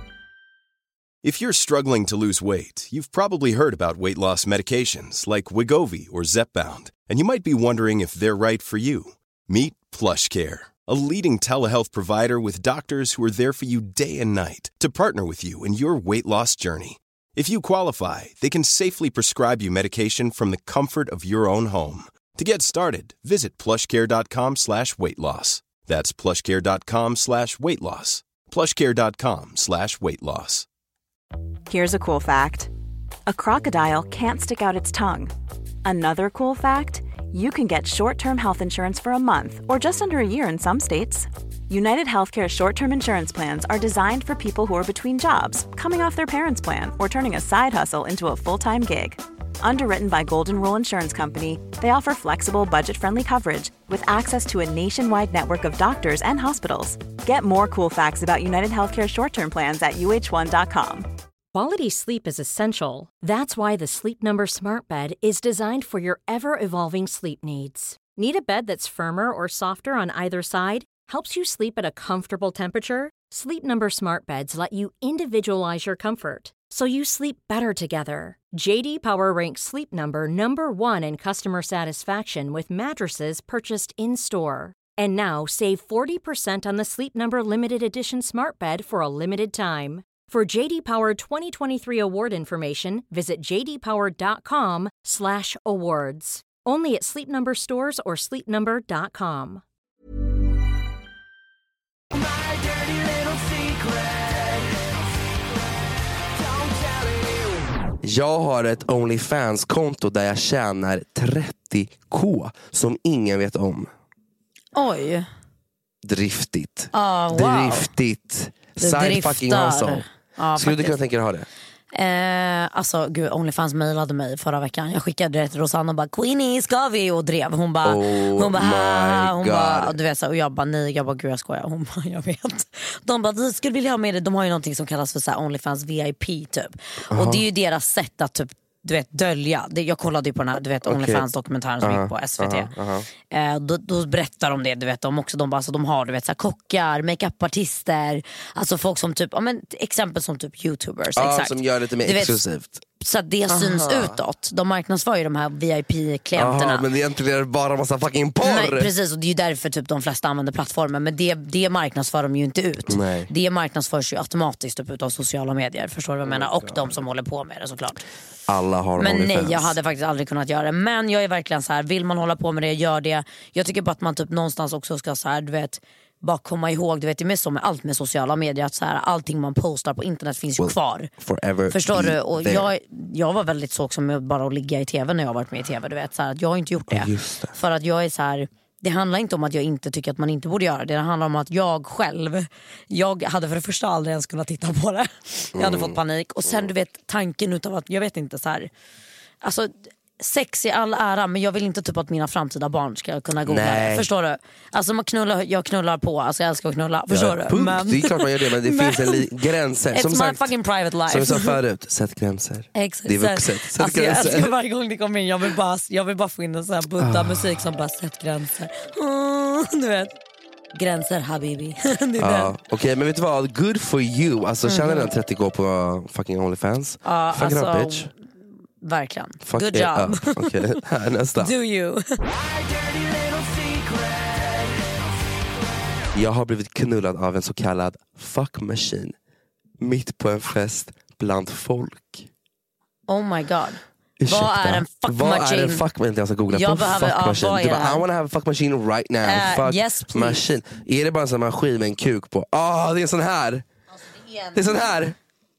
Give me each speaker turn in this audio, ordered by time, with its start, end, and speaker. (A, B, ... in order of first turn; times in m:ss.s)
0:01.2-0:30.7 A
0:31.7-0:32.7 B
0:33.3-0:35.3 B
0:35.8-1:01.1 B
1:01.5-1:39.6 C
1:48.0-1:53.9 D
1:54.8-1:55.3 E
1:56.0-2:00.0 D
1:56.9-1:57.9 E
1:58.8-2:01.0 E
2:00.6-2:01.5 D
2:01.9-2:22.7 E
2:07.8-2:10.0 D
2:17.1-2:17.4 D
2:20.8-2:21.3 D
2:21.8-2:23.1 D
2:23.3-2:32.4 E
2:31.2-2:32.8 D
2:33.0-2:36.9 E
2:33.5-2:34.2 D
2:36.4-2:38.9 D
2:38.4-2:48.0 E
2:42.9-2:43.3 D
2:46.2-2:46.9 D
2:48.5-2:49.8 D
2:49.0-3:01.1 E
3:00.6-3:02.7 D
3:01.7-3:18.7 E
3:06.9-3:07.5 D
3:15.6-3:16.6 D
3:19.4-3:29.3 E
3:23.5-3:24.1 D
3:27.1-3:30.5 D
3:29.9-3:31.6 E
3:31.1-3:34.5 D
3:32.8-3:40.1 E
3:37.0-3:37.6 D
3:40.7-3:42.6 E
3:42.2-3:48.1 D
3:44.6-3:45.1 E
3:47.0-3:48.1 E
3:48.8-3:50.6 E
3:49.5-3:51.5 D
3:51.4-3:52.2 E
3:56.1-3:59.2 D
3:59.8-4:02.3 D
4:03.1-4:05.8 E
4:04.2-4:13.6 D
4:06.5-4:08.0 E
4:09.2-4:10.4 E
4:14.0-4:14.9 E
4:14.6-4:15.2 D